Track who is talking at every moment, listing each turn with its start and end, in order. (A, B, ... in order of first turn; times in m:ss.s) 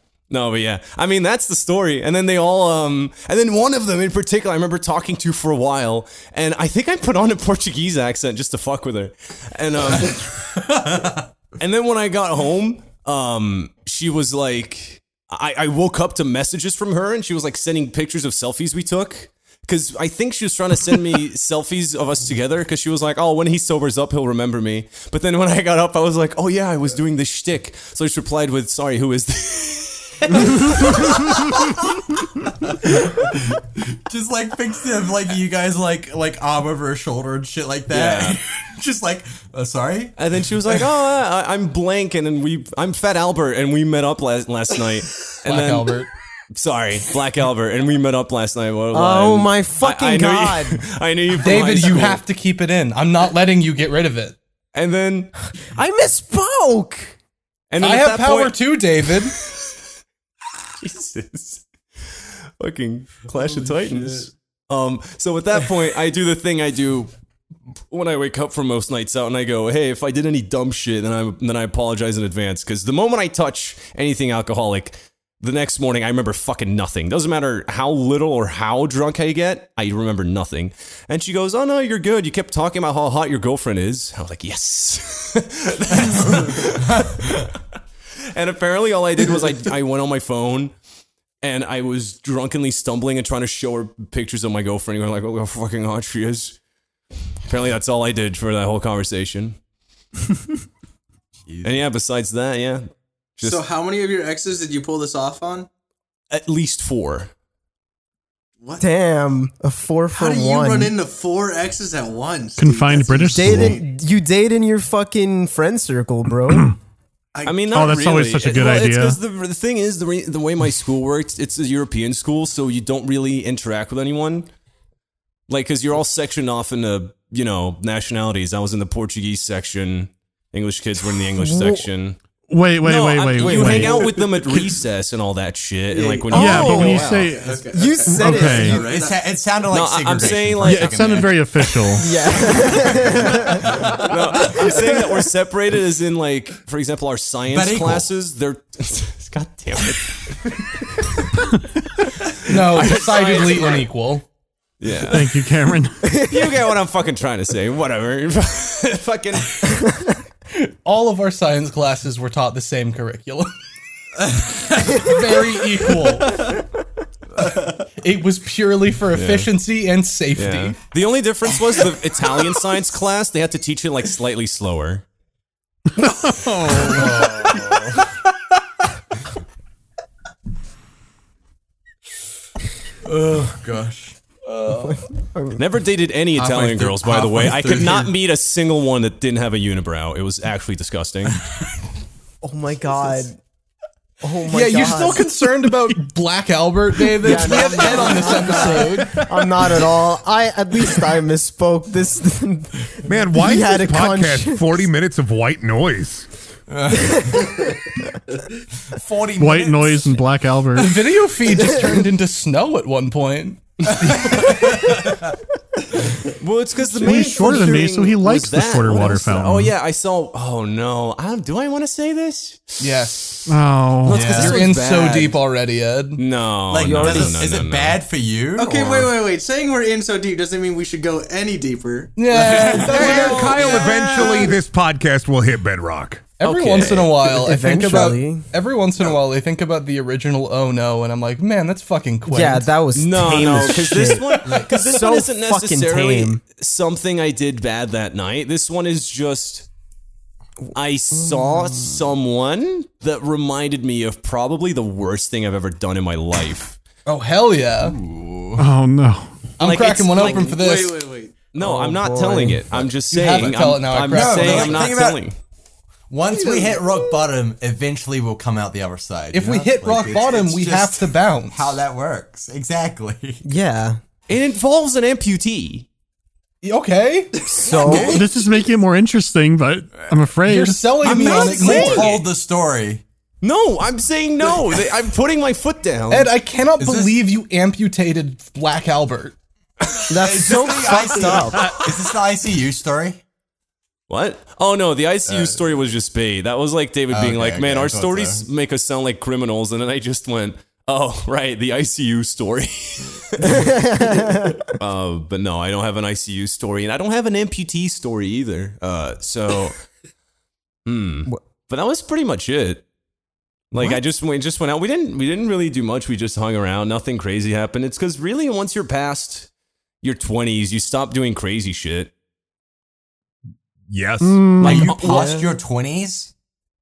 0:00.3-0:10.3 A
0:11.6-0:31.8 A
0:32.8-0:40.1 B
0:37.9-0:38.4 A
0:40.2-0:45.9 A
0:45.4-0:46.1 C
0:46.5-0:52.2 A
0:48.9-0:50.8 D
0:51.3-0:54.4 C
0:54.7-0:55.3 A
0:55.7-0:57.1 D
0:57.7-0:58.8 A
0:57.8-0:59.3 C
0:59.3-0:59.7 A
1:00.8-1:07.1 A
1:07.9-1:27.3 A
1:26.1-1:26.4 B
1:27.0-1:27.2 B
1:28.3-1:30.7 A
1:31.4-1:36.6 A
1:37.5-1:39.6 A
1:41.4-1:41.8 B
1:41.6-1:43.7 A
1:43.4-1:45.7 E
1:46.3-1:47.3 A
1:48.8-1:51.0 D
1:50.1-1:53.8 E
1:52.6-1:53.8 F
1:53.3-1:56.7 D
1:57.3-1:57.7 E
1:57.4-2:04.5 A
1:57.7-1:59.2 F
2:05.5-2:12.2 A
2:11.5-2:11.8 D
2:12.5-2:14.1 F
2:12.8-2:17.3 A
2:13.4-2:14.1 D
2:15.9-2:19.3 E
2:16.3-2:17.1 D
2:16.3-2:18.8 F
2:17.7-2:19.0 D
2:18.3-2:22.0 B
2:19.7-2:21.2 A
2:20.6-2:22.1 F
2:22.0-2:23.8 D
2:23.1-2:24.0 B
2:23.9-2:30.2 A
2:27.5-2:28.1 B
2:32.4-2:34.2 C
2:32.5-2:33.9 A
2:34.8-2:35.4 A
2:35.1-2:36.2 F
2:36.1-2:39.8 A
2:40.5-2:43.5 C
2:44.4-2:45.1 B
2:45.0-2:46.5 C
2:48.0-2:50.8 C
2:49.1-2:49.5 A
2:50.3-2:55.0 A
2:56.1-2:57.0 F
2:56.7-2:58.0 B
3:03.0-3:04.2 B
3:04.5-3:05.0 C
3:05.3-3:05.6 D
3:05.5-3:11.4 A
3:06.4-3:08.1 B
3:12.4-3:13.4 D
3:14.2-3:15.3 D
3:14.4-3:19.3 C
3:17.2-3:24.8 D
3:23.0-3:26.3 G
3:26.7-3:27.7 B
3:27.1-3:27.3 D
3:28.9-3:30.2 B
3:29.4-3:31.0 F
3:30.8-3:34.7 C
3:34.1-3:34.7 A
3:34.3-3:35.2 B
3:36.3-3:42.9 A
3:37.0-3:39.7 F
3:42.8-3:43.4 C
3:43.5-3:44.4 F
3:44.0-3:45.4 A
3:44.1-3:44.6 B
3:44.2-3:46.2 C
3:46.2-3:48.0 A
3:46.7-3:49.2 B
3:46.9-3:47.3 E
3:48.5-3:54.5 E
3:52.2-3:53.7 C
3:52.4-3:53.4 B
3:53.0-3:56.2 G
3:54.0-3:54.4 B
3:56.4-4:02.8 C
3:56.4-3:57.1 A
3:57.2-3:58.4 D
4:02.3-4:06.4 D
4:02.9-4:09.7 A
4:10.7-4:16.8 A
4:11.2-4:11.9 D
4:17.0-4:18.0 C
4:17.8-4:18.6 B
4:18.6-4:19.4 F
4:19.6-4:21.0 C
4:19.6-4:20.6 A
4:20.2-4:21.3 E
4:21.5-4:25.4 A
4:21.6-4:22.6 D
4:23.1-4:24.9 C
4:24.0-4:25.2 B
4:26.1-4:33.4 B
4:26.3-4:27.1 E
4:29.3-4:31.8 C
4:33.4-4:34.0 D
4:34.3-4:35.9 A
4:36.6-4:37.4 C
4:37.5-4:38.2 E
4:37.6-4:38.2 D
4:37.9-4:38.2 B
4:37.9-4:41.0 F
4:40.4-4:42.2 C
4:41.0-4:42.2 A
4:41.0-4:43.0 B
4:43.4-4:46.3 A
4:46.1-4:49.4 C
4:46.8-4:47.2 B
4:50.1-4:51.8 D
4:50.1-4:53.2 B
4:54.1-5:03.8 A
4:55.3-4:55.6 B
4:57.1-4:58.4 B
5:03.4-5:04.6 D
5:04.7-5:09.8 A
5:10.8-5:12.8 A
5:13.7-5:19.5 A
5:20.0-5:22.1 A
5:23.9-5:24.6 G
5:24.2-5:25.0 F
5:24.6-5:25.4 A
5:24.6-5:26.3 B
5:25.0-5:25.5 D